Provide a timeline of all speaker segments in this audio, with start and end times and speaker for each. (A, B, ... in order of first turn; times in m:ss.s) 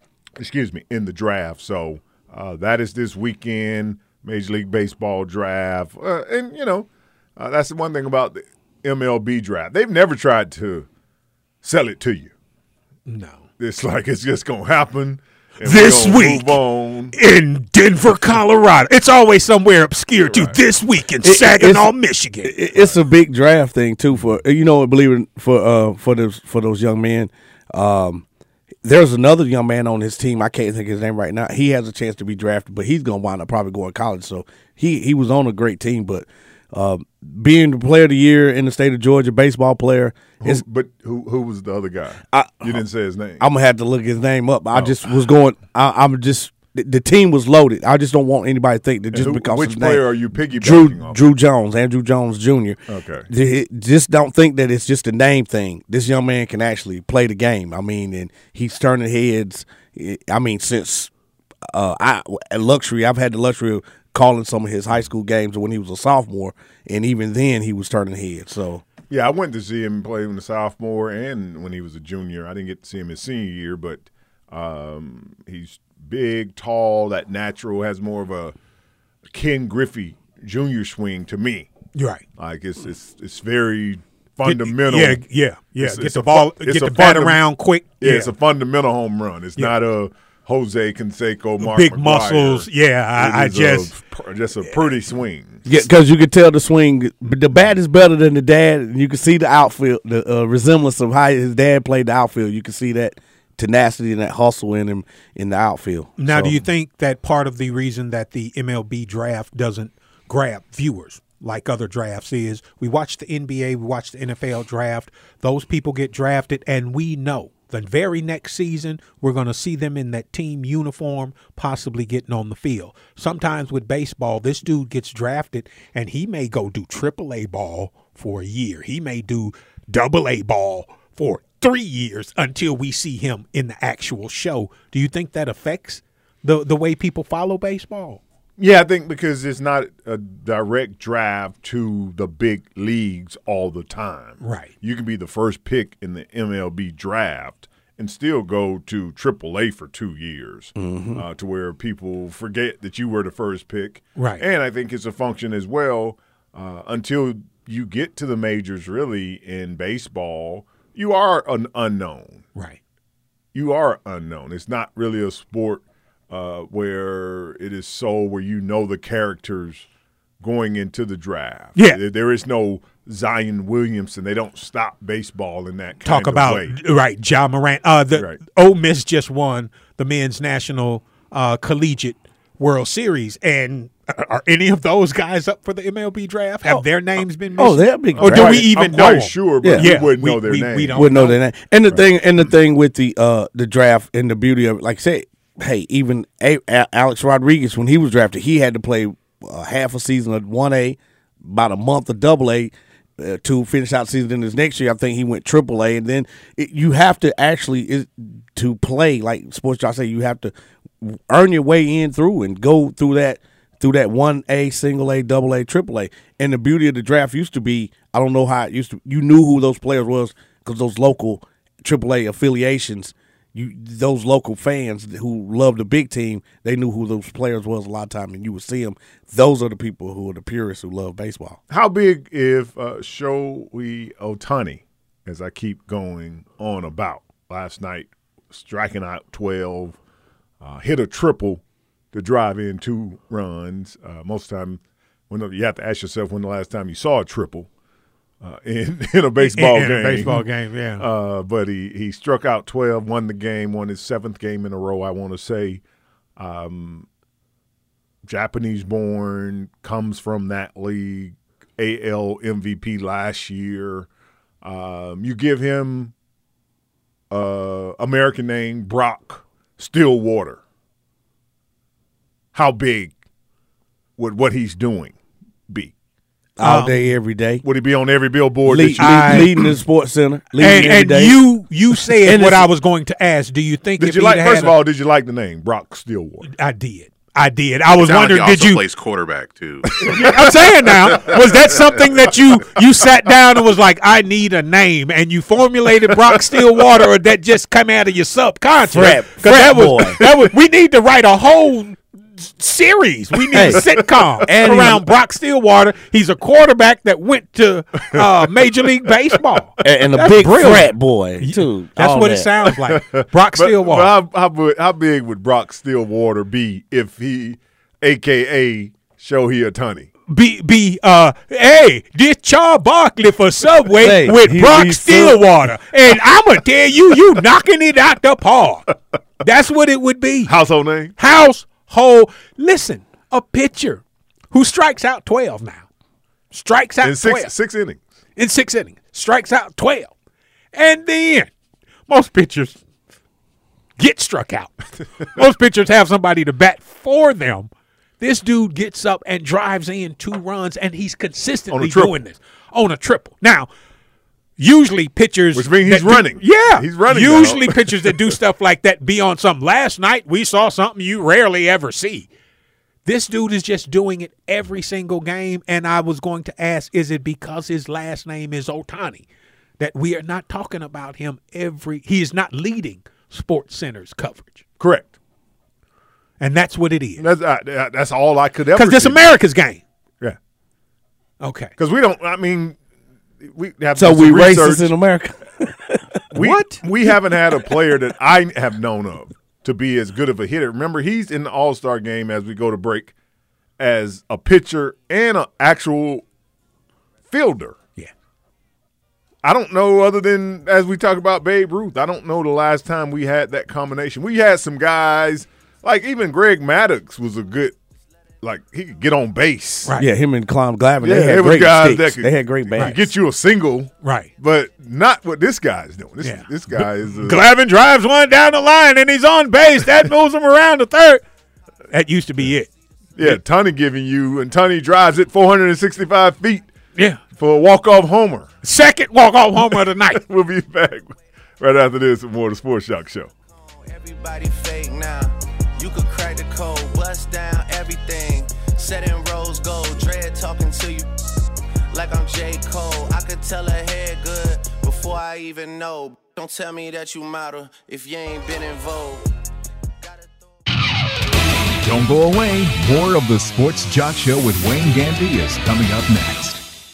0:00.4-0:10.9 A
0:11.6-0:12.3 A
0:13.1-0:13.5 B
0:13.6-0:17.2 A
0:15.6-0:16.6 B
0:17.1-0:22.5 B
0:20.3-0:20.6 A
0:21.2-0:28.2 C
0:28.8-0:40.6 C
0:40.4-0:43.4 A
0:42.3-0:42.8 C
0:43.4-1:01.1 C
0:44.7-0:45.1 A
0:49.1-0:51.2 A
0:52.9-0:53.3 A
1:01.7-1:08.8 C
1:09.1-1:18.6 A
1:19.3-1:21.7 A
1:22.0-1:22.2 B
1:22.4-1:25.2 A
1:24.4-1:28.3 B
1:25.8-1:27.4 A
1:28.0-1:35.6 A
1:31.6-1:33.9 B
1:35.6-1:46.6 C
1:46.2-2:18.2 B
2:18.6-2:42.5 A
2:24.4-2:24.7 B
2:30.8-2:31.2 C
2:34.2-2:34.4 B
2:43.5-2:49.9 A
2:50.4-2:56.8 A
2:56.0-3:11.4 B
3:07.6-3:08.7 C
3:08.2-3:11.2 A
3:09.6-3:09.9 C
3:10.9-3:51.6 C
3:51.7-4:00.0 A
4:00.6-4:07.7 A
4:08.4-4:10.4 A
4:09.5-4:11.1 B
4:11.0-4:15.8 A
4:16.4-4:17.1 A
4:18.2-4:24.1 A
4:24.6-4:26.1 A
4:27.3-4:30.6 A
4:32.5-4:33.2 A
4:34.2-4:35.9 A
4:36.6-4:37.6 C
4:36.6-4:37.0 B
4:37.6-4:39.6 A
4:38.6-4:41.4 C
4:39.0-4:39.5 B
4:40.6-4:44.8 B
4:42.2-4:42.7 C
4:44.0-4:46.5 A
4:46.4-4:48.8 B
4:47.9-4:52.0 D
4:50.0-4:50.5 A
4:50.0-5:14.1 B
4:58.9-5:00.3 C
5:03.4-5:04.4 A
5:03.6-5:03.9 C
5:04.4-5:05.1 C
5:08.1-5:08.8 A
5:09.8-5:12.5 C
5:12.8-5:20.1 A
5:20.3-5:28.9 B
5:24.0-5:25.4 C
5:29.4-5:30.5 B
5:30.5-5:31.1 A
5:31.2-5:35.9 B
5:36.5-5:37.5 B
5:37.0-5:38.0 A
5:38.4-5:40.1 B
5:40.7-5:41.5 B
5:42.1-5:42.8 B
5:44.0-5:44.8 B
5:45.3-5:53.7 B
5:51.7-5:52.1 A
5:54.6-6:02.3 B
5:55.5-5:58.3 A
6:03.0-6:09.3 B
6:09.8-6:14.6 B
6:14.8-6:15.2 A
6:16.4-6:17.2 B
6:17.2-6:19.3 A
6:18.8-6:19.8 B
6:21.4-6:21.7 B
6:21.8-6:22.8 A
6:23.4-6:24.9 A
6:24.0-6:26.0 C
6:26.3-6:33.1 A
6:26.4-6:26.9 B
6:33.8-6:36.2 A
6:37.3-6:37.8 A
6:39.4-6:47.8 A
6:48.4-6:50.0 A
6:50.0-6:53.0 C
6:51.0-6:57.4 A
6:54.0-6:54.3 B
6:56.2-7:01.2 B
7:01.9-7:02.7 B
7:03.2-7:06.7 A
7:07.0-7:07.2 B
7:07.3-7:08.5 A
7:08.6-7:10.2 B
7:10.1-7:13.3 A
7:14.2-7:15.3 E
7:15.8-7:21.0 E
7:22.0-7:29.2 E
7:31.8-7:36.6 F